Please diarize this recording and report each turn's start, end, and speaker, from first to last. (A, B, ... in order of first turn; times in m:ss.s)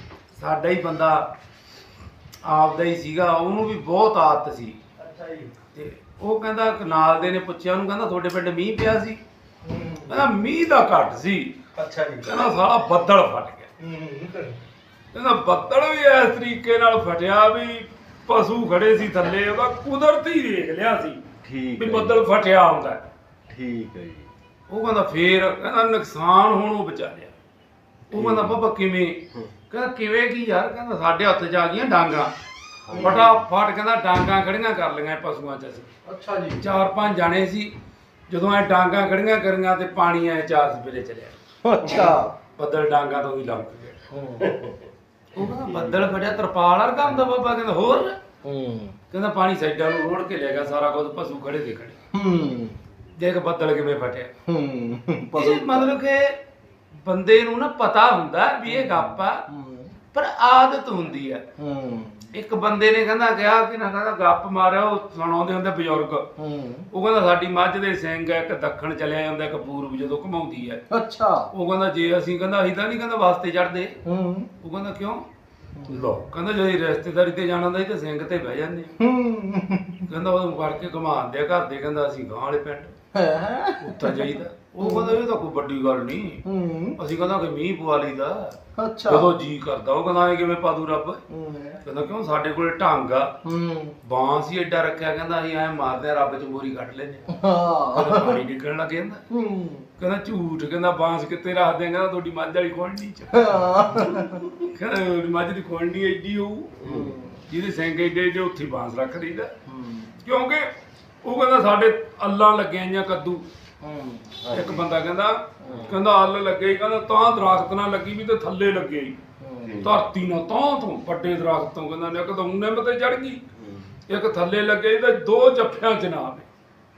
0:00.3-0:01.3 A
0:02.4-0:04.8 A
0:05.0-0:05.5 B
0:05.7-0:09.2 A
0:09.6-0:10.3 B
0:10.1-0:11.6 A
0:11.7-0:12.4 B
0:12.2-0:13.7 A
0:13.8-0:14.6 B
0:15.1-0:21.2 A
0:21.4-0:22.2 C
0:21.8-0:23.0 A
0:23.5-0:24.3 C
0:24.7-0:27.3 A
0:28.1-0:32.3 A
0:28.1-0:28.6 C
0:32.9-0:33.4 C
0:32.9-0:33.2 B
0:32.9-0:35.9 A
0:36.0-0:36.8 B
0:36.6-0:37.7 A
0:38.3-0:41.4 A
0:41.6-0:42.3 B
0:42.6-0:44.0 A
0:44.1-0:44.7 B
0:45.3-0:48.2 A
0:48.4-0:49.0 B
0:49.1-0:52.0 A
0:52.1-0:52.8 B
0:53.1-0:54.3 A
0:54.4-0:56.0 B
0:55.3-0:56.4 A
0:57.0-0:59.4 A
0:58.7-1:00.0 B
1:00.1-1:01.4 A
1:01.6-1:02.3 B
1:02.3-1:06.2 A
1:06.4-1:06.9 B
1:06.9-1:10.8 A
1:10.9-1:11.5 B
1:11.5-1:14.0 A
1:14.0-1:14.5 B
1:14.6-1:15.2 A
1:15.8-1:16.2 B
1:15.8-1:18.9 A
1:19.0-1:20.1 B
1:20.1-1:22.9 A
1:23.1-1:25.2 B
1:23.8-1:26.4 A
1:26.4-1:27.0 B
1:27.0-1:31.2 A
1:28.8-1:29.3 B
1:31.3-1:31.8 B
1:31.8-1:33.4 A
1:33.4-1:34.0 B
1:34.0-1:39.2 A
1:37.3-1:38.4 B
1:39.3-1:39.9 B
1:40.0-1:49.5 A
1:43.3-1:44.4 B
1:46.8-1:47.4 B
1:46.8-1:47.1 C
1:49.6-1:50.2 B
1:50.2-1:50.7 A
1:51.2-1:53.4 A
1:53.8-1:54.8 B
1:54.5-1:59.2 A
1:55.6-1:55.9 B
1:55.6-1:55.9 C
1:59.4-1:59.8 B
1:59.6-2:00.0 C
1:59.8-2:03.4 A
2:03.6-2:03.9 C
2:04.1-2:06.5 A